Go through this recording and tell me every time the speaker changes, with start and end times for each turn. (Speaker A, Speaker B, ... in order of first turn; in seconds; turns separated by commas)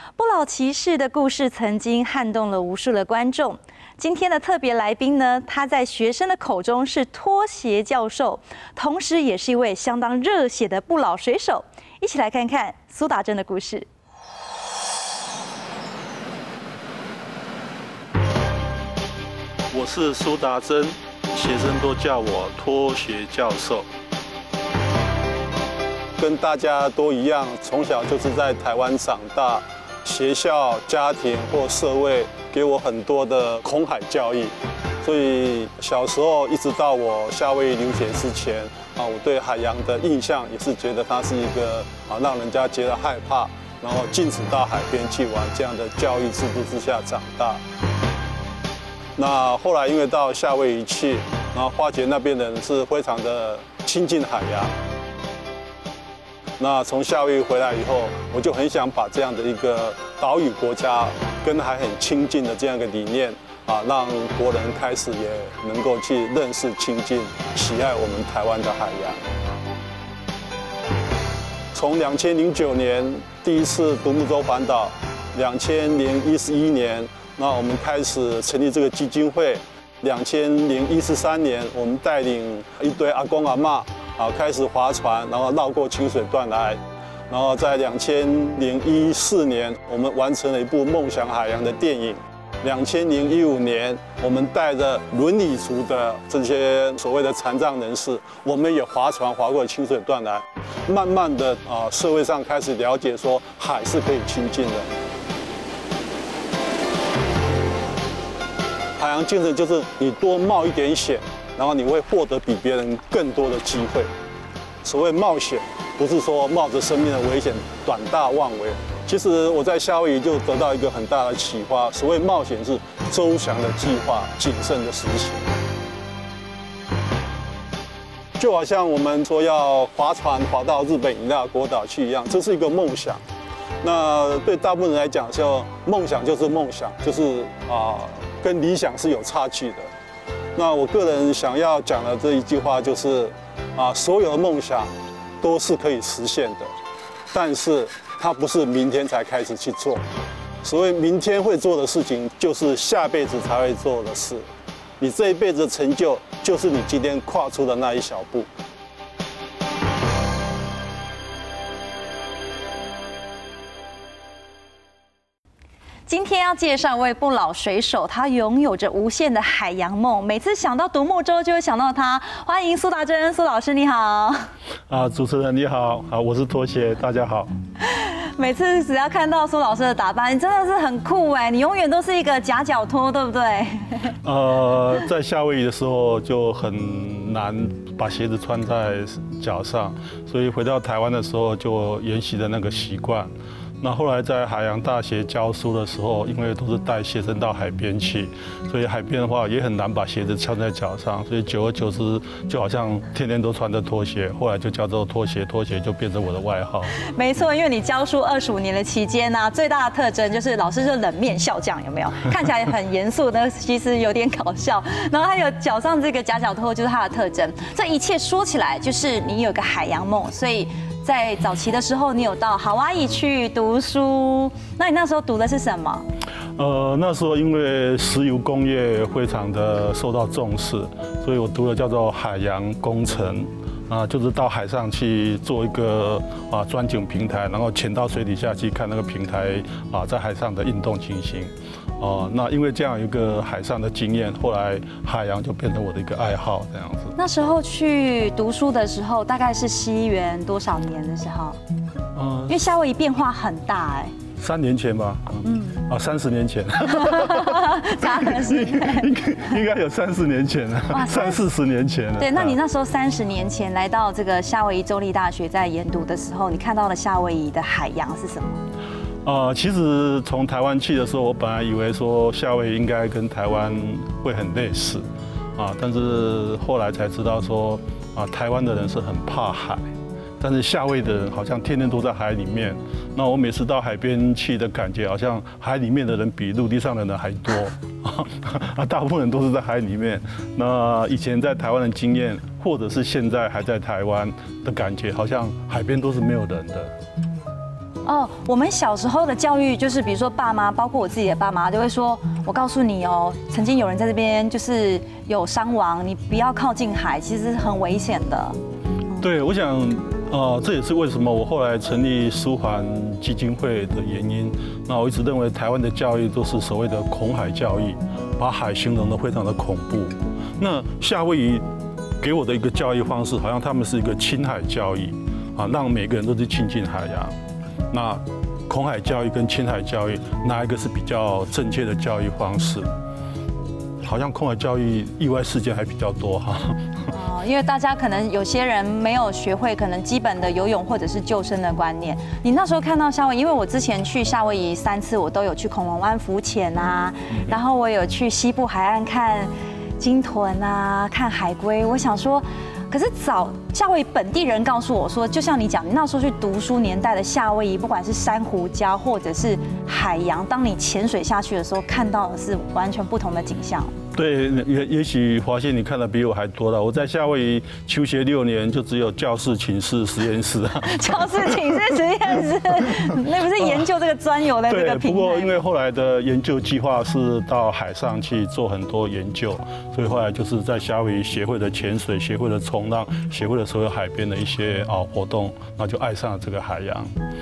Speaker A: 0.2-13.9, Speaker B: 19.7-23.9, Speaker B: 26.2-47.6, Speaker B: 49.1-54.7, Speaker B: 56.6-69.2, Speaker B: 71.7-104.9, Speaker B: 109.0-114.1, Speaker B: 114.8-125.5, Speaker B: 128.4-133.2, Speaker B: 133.8-139.9, Speaker B: 140.6-146.7, Speaker B: 147.3-150.1, Speaker B: 150.6-154.4, Speaker B: 155.0-158.5, Speaker A: 166.1-174.5, Speaker B: 174.9-177.5, Speaker A: 177.8-184.1, Speaker B: 184.2-206.9, Speaker A: 207.1-226.1, Speaker B: 226.6-247.2, Speaker A: 247.2-251.6, Speaker B: 252.1-252.6, Speaker A: 252.5-254.1, Speaker B: 254.4-262.6, Speaker A: 255.4-255.8, Speaker A: 256.9-259.1, Speaker A: 260.9-261.4, Speaker A: 262.2-268.6, Speaker B: 269.2-296.9, Speaker A: 298.0-308.6, Speaker B: 309.2-321.6, Speaker B: 322.2-327.4, Speaker B: 327.9-332.9, Speaker B: 334.0-336.8, Speaker A: 337.1-363.9, Speaker B: 364.1-371.9, Speaker A: 370.8-375.5, Speaker B: 372.9-373.8, Speaker B: 374.7-387.1